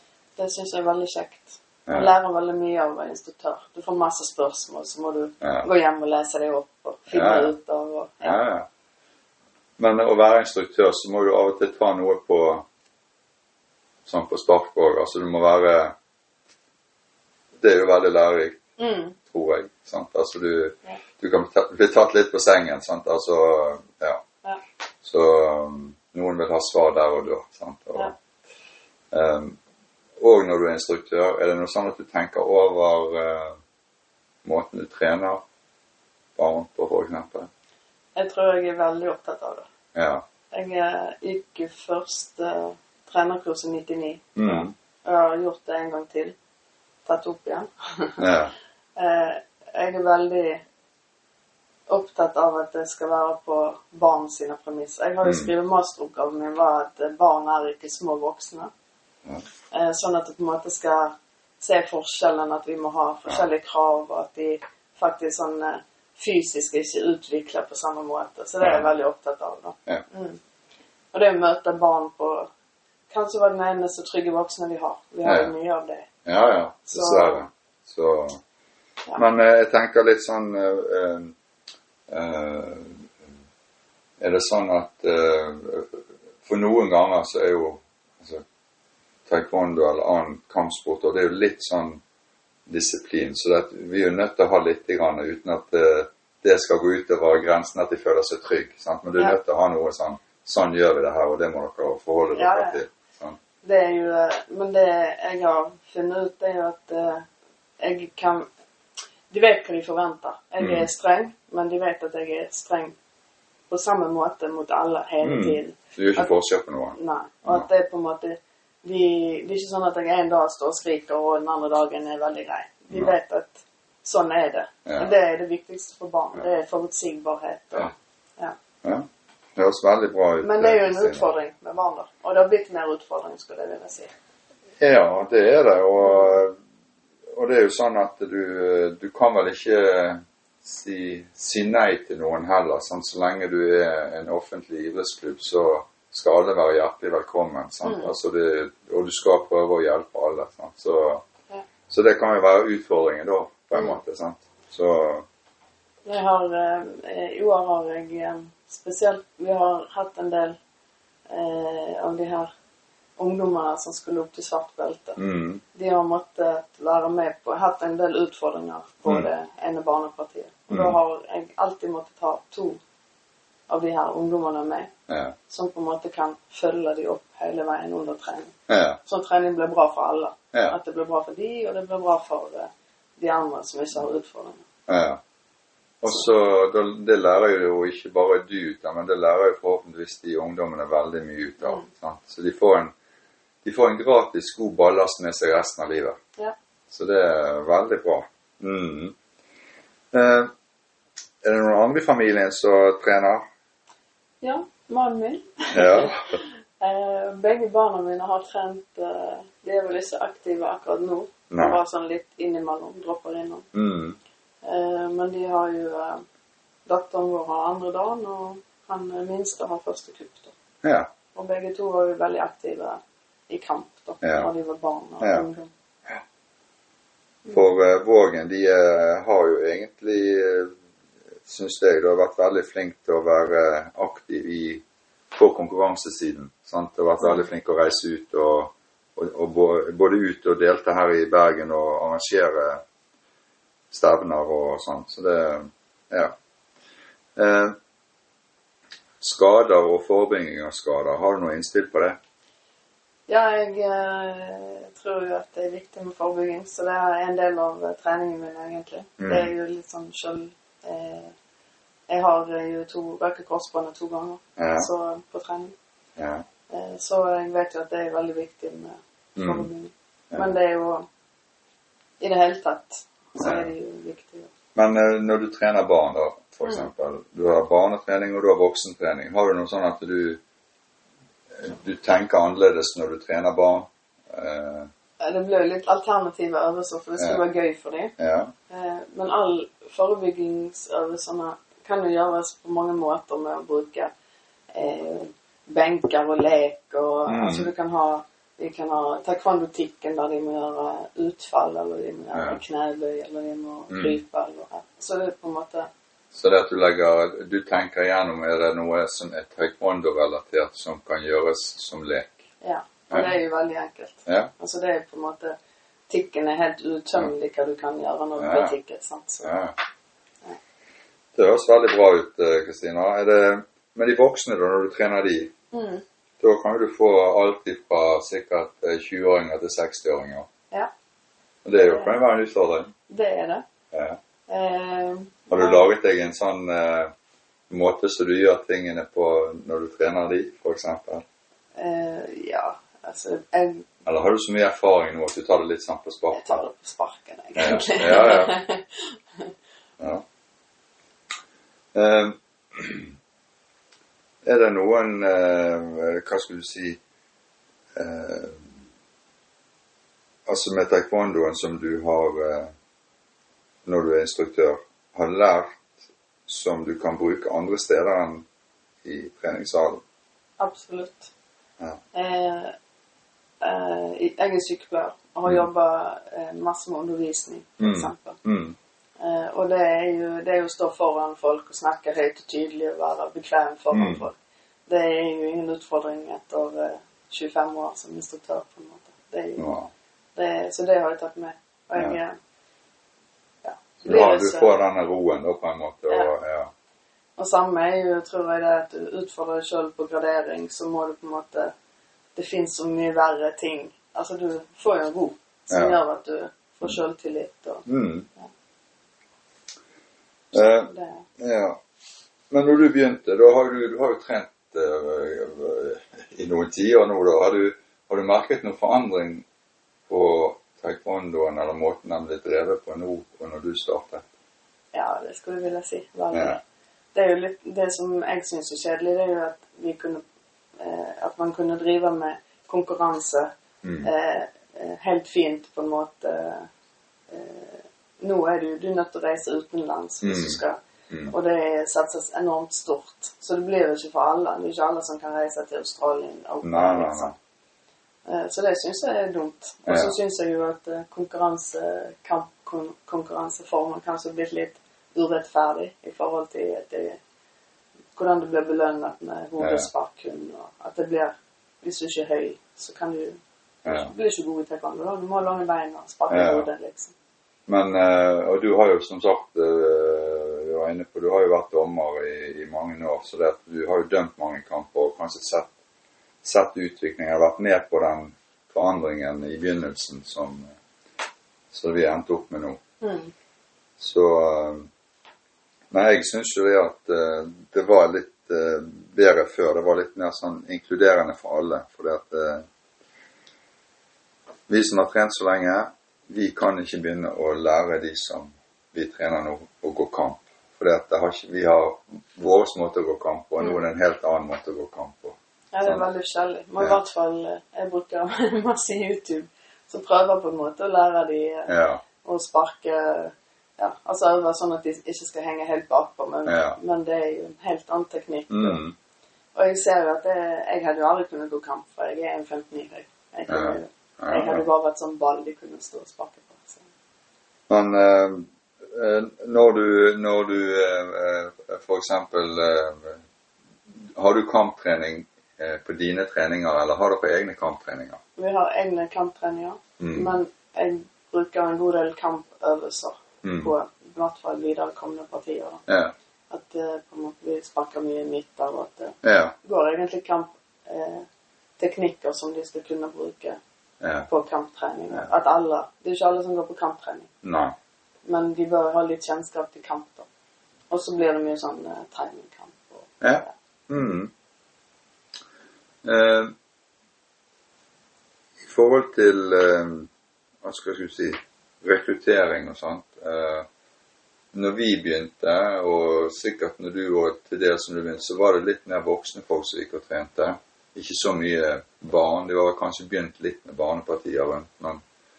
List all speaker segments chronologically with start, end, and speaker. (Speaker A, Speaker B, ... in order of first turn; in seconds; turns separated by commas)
Speaker A: 0.4-8.4, Speaker B: 1.9-2.1, Speaker B: 5.4-5.7, Speaker B: 7.1-7.5, Speaker B: 8.2-8.7, Speaker B: 9.8-12.7, Speaker B: 14.1-15.9, Speaker B: 17.6-18.6, Speaker A: 18.8-19.2, Speaker B: 19.2-24.2, Speaker B: 25.0-28.1, Speaker B: 29.1-29.6, Speaker B: 30.2-33.6, Speaker B: 34.5-35.4, Speaker B: 36.4-37.5, Speaker A: 38.1-39.7, Speaker B: 40.0-40.2, Speaker A: 40.5-46.4, Speaker B: 44.4-44.7, Speaker A: 47.0-48.2, Speaker B: 48.2-48.5, Speaker A: 49.0-50.6, Speaker A: 51.9-58.7, Speaker B: 55.2-55.5, Speaker A: 59.7-70.4, Speaker B: 68.6-68.9, Speaker A: 71.1-72.5, Speaker A: 73.1-76.1, Speaker B: 75.2-75.5, Speaker B: 76.3-78.4, Speaker A: 76.9-77.4, Speaker B: 79.2-81.3, Speaker B: 82.1-83.1, Speaker B: 84.2-88.4, Speaker B: 89.3-92.0, Speaker B: 92.7-103.4, Speaker A: 102.3-102.8, Speaker A: 103.6-107.3, Speaker A: 107.8-108.5, Speaker A: 109.3-113.0, Speaker B: 110.6-110.9, Speaker A: 113.7-116.3, Speaker B: 115.2-117.7, Speaker A: 116.9-128.6, Speaker B: 124.9-125.1, Speaker B: 129.6-131.3, Speaker A: 130.4-134.1, Speaker B: 134.8-136.6, Speaker B: 137.3-151.2, Speaker A: 147.8-148.1, Speaker B: 151.9-155.3, Speaker A: 156.1-160.6, Speaker A: 161.3-162.5, Speaker A: 163.2-165.2, Speaker B: 165.2-165.6, Speaker A: 165.7-172.8, Speaker B: 170.7-171.0, Speaker A: 173.7-174.9, Speaker B: 175.1-175.4, Speaker A: 175.5-178.5, Speaker B: 178.7-179.0, Speaker A: 179.1-184.7, Speaker B: 184.9-185.2, Speaker B: 186.0-192.9, Speaker B: 193.6-196.2, Speaker B: 196.9-199.2, Speaker B: 200.1-200.5, Speaker B: 201.4-203.4, Speaker A: 204.4-206.2, Speaker B: 205.7-206.4, Speaker A: 206.8-213.7, Speaker B: 211.5-211.8, Speaker B: 213.7-214.2, Speaker A: 214.6-216.2, Speaker A: 216.9-220.6, Speaker B: 220.8-221.1, Speaker A: 221.3-225.7, Speaker B: 224.2-224.5, Speaker B: 225.2-225.5, Speaker B: 227.5-230.8, Speaker B: 231.4-242.8, Speaker B: 243.9-246.4, Speaker B: 247.4-247.8, Speaker B: 249.2-252.2, Speaker A: 253.3-261.3, Speaker B: 259.2-259.5, Speaker A: 262.1-265.7, Speaker B: 264.6-264.9, Speaker B: 266.2-266.4, Speaker A: 266.7-271.1, Speaker B: 269.4-269.7, Speaker A: 272.2-274.5, Speaker B: 273.4-273.7, Speaker B: 274.8-280.4, Speaker B: 281.6-284.9, Speaker A: 285.2-288.1, Speaker B: 288.2-288.5, Speaker A: 288.7-294.1, Speaker A: 294.7-305.9, Speaker B: 297.3-297.7, Speaker B: 302.3-302.6, Speaker B: 303.9-304.2, Speaker B: 306.3-312.4, Speaker A: 312.6-315.6, Speaker B: 313.1-313.4, Speaker A: 316.1-319.5, Speaker B: 318.4-318.8, Speaker B: 319.4-319.8, Speaker B: 321.4-325.5, Speaker A: 325.7-326.0, Speaker B: 326.4-330.5, Speaker B: 331.6-332.9, Speaker A: 331.8-332.3, Speaker A: 333.1-333.6, Speaker B: 333.9-334.2, Speaker A: 334.5-335.9, Speaker B: 335.5-337.1, Speaker B: 337.7-341.2, Speaker A: 341.8-343.9, Speaker B: 344.1-346.6, Speaker A: 346.3-349.5, Speaker B: 347.6-348.6, Speaker B: 351.9-353.1, Speaker B: 354.4-357.0, Speaker B: 358.0-358.7, Speaker B: 360.5-362.7, Speaker B: 363.9-365.9, Speaker B: 366.5-368.5, Speaker B: 369.0-370.0, Speaker A: 370.6-371.3, Speaker A: 372.1-372.7, Speaker A: 373.6-378.4, Speaker B: 377.8-378.8, Speaker A: 379.2-384.4, Speaker B: 383.9-384.2, Speaker A: 384.9-389.7, Speaker B: 389.6-389.9, Speaker A: 390.4-392.4, Speaker A: 393.6-394.8, Speaker B: 394.0-396.7, Speaker A: 397.4-401.7, Speaker A: 402.4-408.5, Speaker B: 405.7-406.0, Speaker B: 407.9-408.3, Speaker B: 410.5-411.8, Speaker A: 410.5-411.2, Speaker B: 412.5-419.5, Speaker B: 420.1-424.2, Speaker A: 424.9-426.6, Speaker B: 426.3-426.6, Speaker A: 427.1-430.2, Speaker A: 430.8-433.5, Speaker B: 433.8-434.1, Speaker A: 434.0-436.7, Speaker A: 437.3-440.8, Speaker B: 440.2-440.6, Speaker A: 441.3-447.3, Speaker B: 446.6-447.4, Speaker A: 448.3-457.2, Speaker B: 449.9-450.2, Speaker A: 458.1-467.1, Speaker B: 459.6-459.9, Speaker B: 463.9-464.1, Speaker B: 466.3-466.7, Speaker B: 467.7-475.7, Speaker B: 476.4-480.7, Speaker B: 481.7-482.8, Speaker A: 483.0-483.3, Speaker B: 484.0-484.9, Speaker B: 485.9-492.7, Speaker B: 494.7-506.1, Speaker A: 505.7-511.7, Speaker B: 511.7-512.0, Speaker A: 512.2-518.8, Speaker B: 516.5-516.8, Speaker B: 518.5-519.0, Speaker A: 519.5-526.9, Speaker B: 523.5-524.7, Speaker B: 527.7-533.2, Speaker B: 534.1-538.2, Speaker A: 538.4-545.8, Speaker B: 540.0-540.4, Speaker B: 543.4-543.7, Speaker B: 545.9-546.1, Speaker A: 546.5-551.3, Speaker B: 549.2-549.5, Speaker A: 551.8-553.6, Speaker B: 554.0-554.3, Speaker A: 554.3-557.3, Speaker B: 557.4-557.8, Speaker A: 558.2-560.3, Speaker A: 560.9-563.5, Speaker B: 563.2-564.3, Speaker B: 566.0-566.5, Speaker B: 568.6-570.1, Speaker B: 570.6-573.7, Speaker B: 574.5-585.0